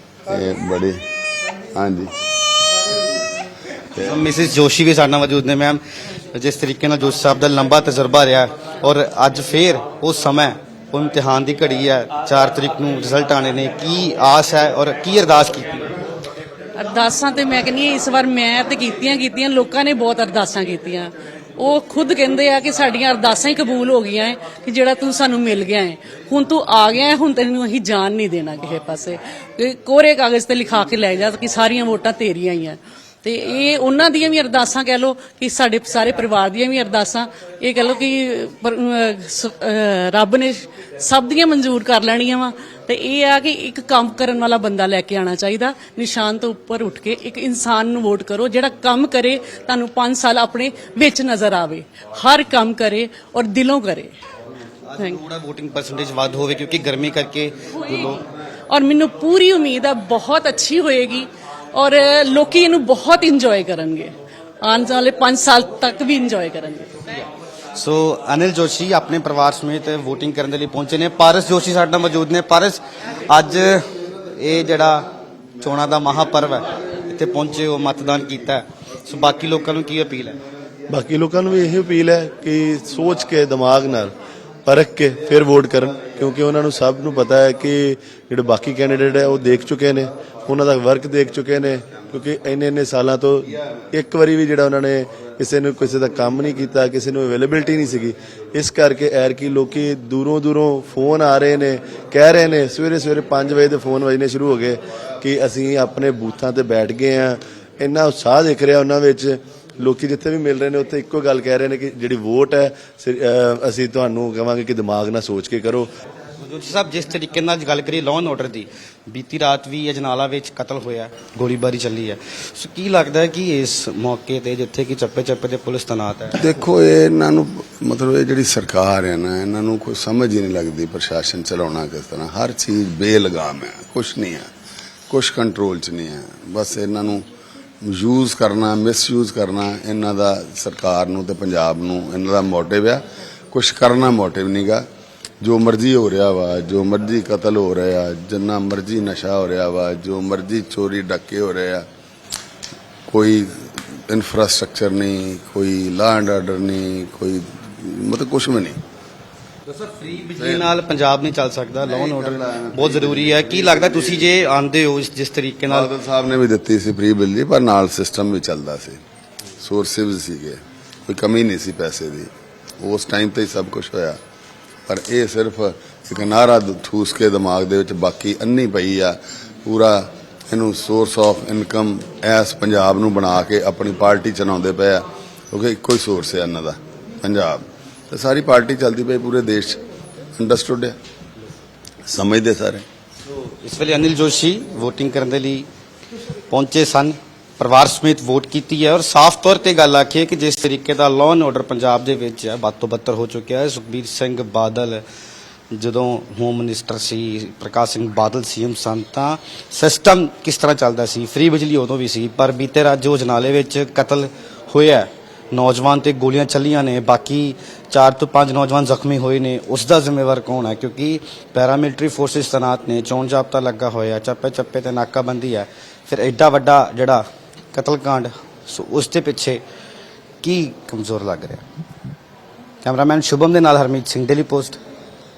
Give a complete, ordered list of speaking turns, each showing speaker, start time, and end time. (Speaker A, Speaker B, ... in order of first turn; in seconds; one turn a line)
Speaker A: 0.3-1.0
Speaker A: 1.7-2.1
Speaker B: 4.0-15.9
Speaker C: 16.8-54.1
Speaker B: 54.9-58.2
Speaker C: 58.7-66.9
Speaker B: 67.7-75.1
Speaker B: 75.6-80.4
Speaker D: 80.9-84.1
Speaker D: 84.7-115.9
Speaker B: 116.4-126.4
Speaker A: 126.3-134.5
Speaker A: 135.1-137.2
Speaker A: 137.8-144.8
Speaker A: 145.4-151.8
Speaker A: 153.1-158.8
Speaker B: 159.7-165.9
Speaker A: 160.4-160.7
Speaker A: 161.8-164.3
Speaker A: 165.7-169.0
Speaker A: 169.6-172.3
Speaker A: 172.8-174.2
Speaker A: 174.9-189.8
Speaker A: 190.3-190.9
Speaker A: 192.1-192.8
Speaker B: 193.2-195.7
Speaker B: 196.5-205.0
Speaker B: 205.7-229.6
Speaker B: 230.4-231.6
Speaker B: 232.8-234.8